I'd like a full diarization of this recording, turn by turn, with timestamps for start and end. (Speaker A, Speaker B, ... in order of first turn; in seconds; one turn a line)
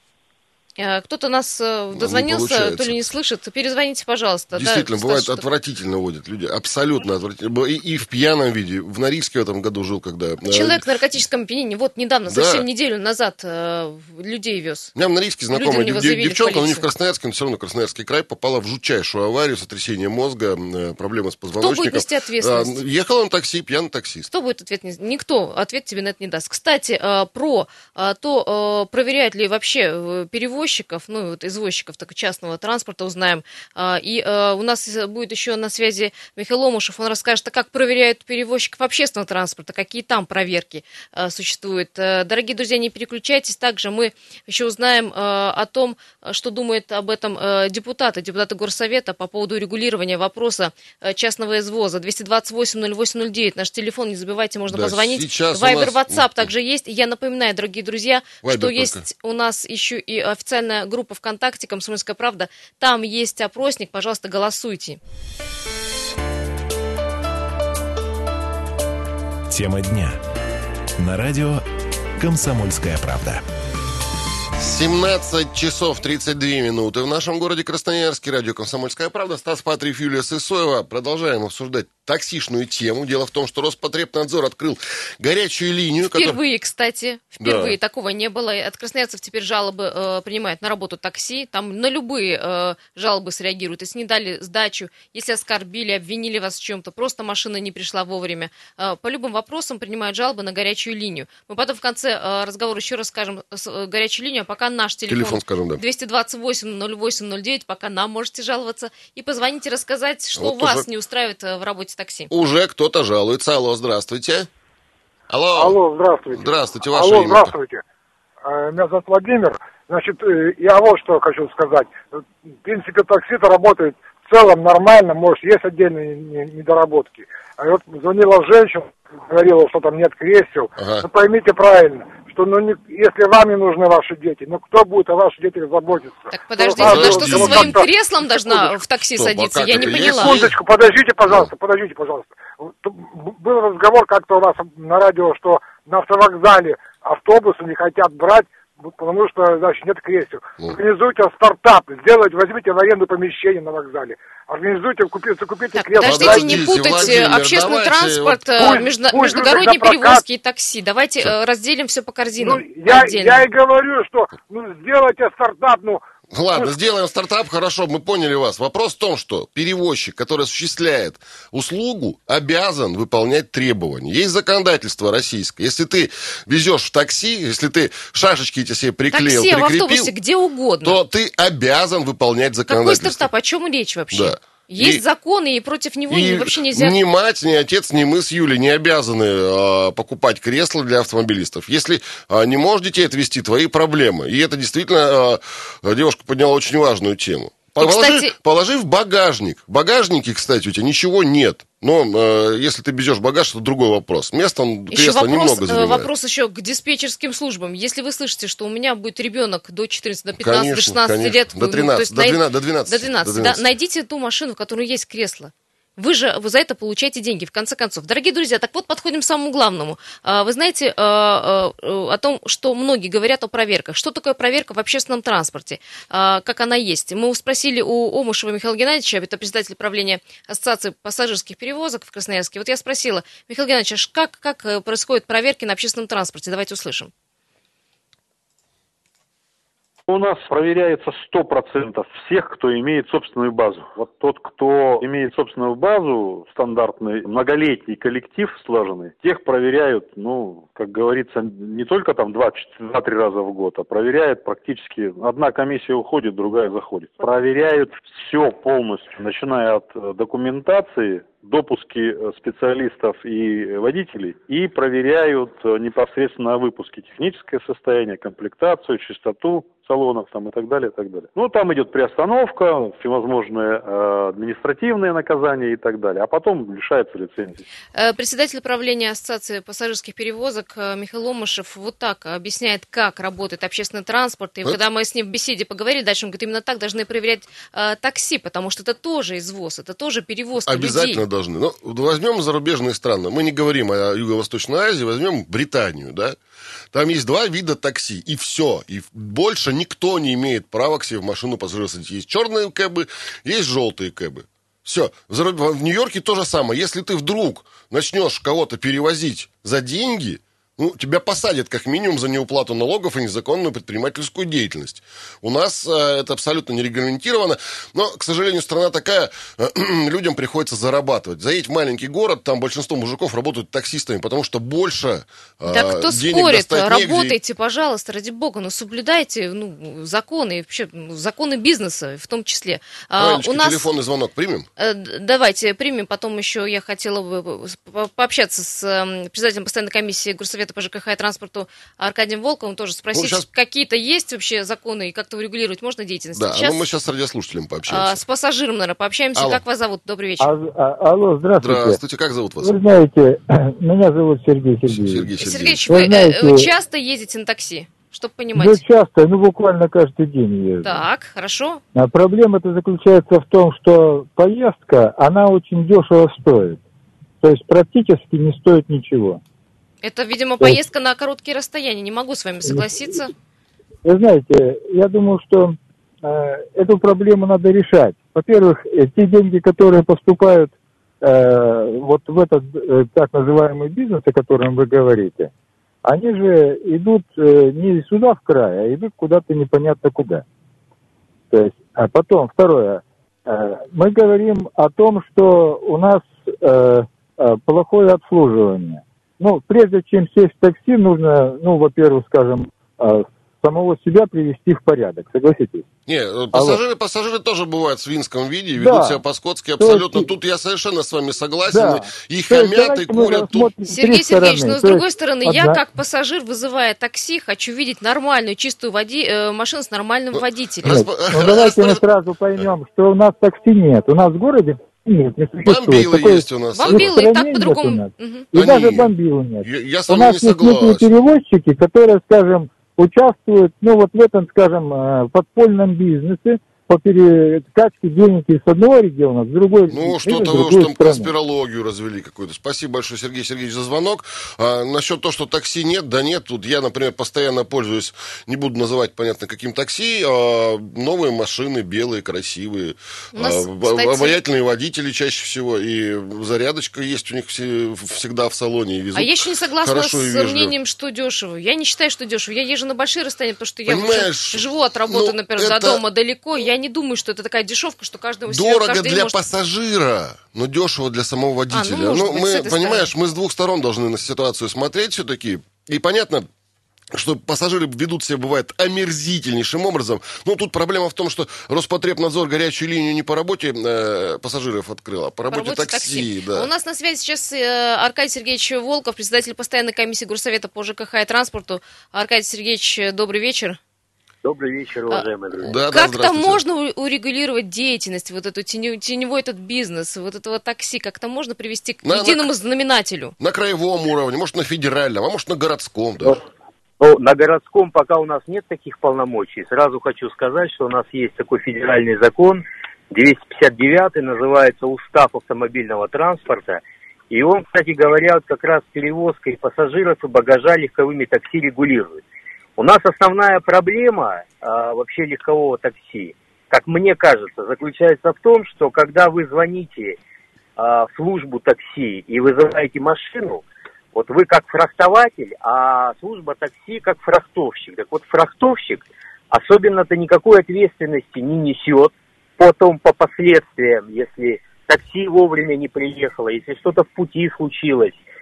Speaker A: 0.8-5.4
Speaker B: 1.9-3.0
Speaker B: 4.5-10.8
Speaker A: 10.4-14.9
Speaker B: 12.3-12.6
Speaker B: 14.9-24.3
Speaker A: 15.5-16.9
Speaker A: 21.6-22.8
Speaker A: 24.3-65.0
Speaker B: 54.7-56.5
Speaker B: 58.4-59.0
Speaker C: 69.5-70.2
Speaker C: 71.0-71.6
Speaker C: 72.2-73.4
Speaker B: 74.6-86.4
Speaker A: 86.1-112.3
Speaker B: 87.4-87.8
Speaker B: 105.1-105.8
Speaker B: 110.4-110.8
Speaker B: 112.3-114.5
Speaker B: 115.3-115.8
Speaker D: 115.5-117.8
Speaker B: 116.3-117.6
Speaker D: 118.4-137.9
Speaker B: 130.8-131.1
Speaker A: 136.3-140.4
Speaker B: 136.8-137.8
Speaker B: 139.1-140.6
Speaker D: 139.7-157.2
Speaker B: 141.3-141.5
Speaker A: 155.7-163.4
Speaker B: 156.0-158.7
Speaker D: 158.6-160.2
Speaker D: 162.4-166.0
Speaker B: 166.3-180.1
Speaker A: 179.1-181.0
Speaker B: 180.8-183.3
Speaker A: 182.7-186.9
Speaker B: 184.1-185.0
Speaker B: 186.1-206.1
Speaker A: 197.8-198.4
Speaker A: 204.9-237.1
Speaker B: 210.4-213.7
Speaker E: 240.1-277.6
Speaker A: 277.9-291.2
Speaker B: 290.7-296.4
Speaker B: 296.9-327.4
Speaker A: 325.6-333.9
Speaker B: 333.2-334.7
Speaker A: 334.8-346.8
Speaker B: 343.1-343.4
Speaker B: 346.4-348.2
Speaker A: 347.9-350.6
Speaker B: 349.4-349.6
Speaker F: 350.4-352.0
Speaker B: 351.6-352.7
Speaker F: 352.6-355.3
Speaker B: 354.9-356.1
Speaker A: 355.4-358.8
Speaker F: 355.9-356.7
Speaker F: 358.5-361.0
Speaker A: 360.8-361.8
Speaker F: 361.9-366.8
Speaker F: 367.4-369.4
Speaker A: 370.0-373.3
Speaker F: 374.0-385.5
Speaker F: 386.0-390.4
Speaker F: 391.5-405.9
Speaker B: 406.1-413.7
Speaker F: 406.5-406.8
Speaker F: 408.8-409.2
Speaker F: 409.8-410.3
Speaker F: 411.7-415.8
Speaker A: 413.9-421.0
Speaker B: 420.4-422.0
Speaker F: 420.9-441.3
Speaker B: 425.6-427.1
Speaker A: 426.7-428.5
Speaker B: 428.5-431.1
Speaker B: 439.9-460.7
Speaker A: 453.3-454.4
Speaker A: 459.1-469.4
Speaker B: 463.9-466.0
Speaker B: 468.5-476.5
Speaker A: 471.7-473.1
Speaker B: 477.1-486.7
Speaker A: 485.5-493.8
Speaker G: 494.4-495.8
Speaker B: 495.6-496.6
Speaker A: 495.9-503.4
Speaker B: 502.0-502.5
Speaker B: 503.4-506.4
Speaker G: 507.0-522.2
Speaker G: 522.8-530.2
Speaker G: 530.8-548.2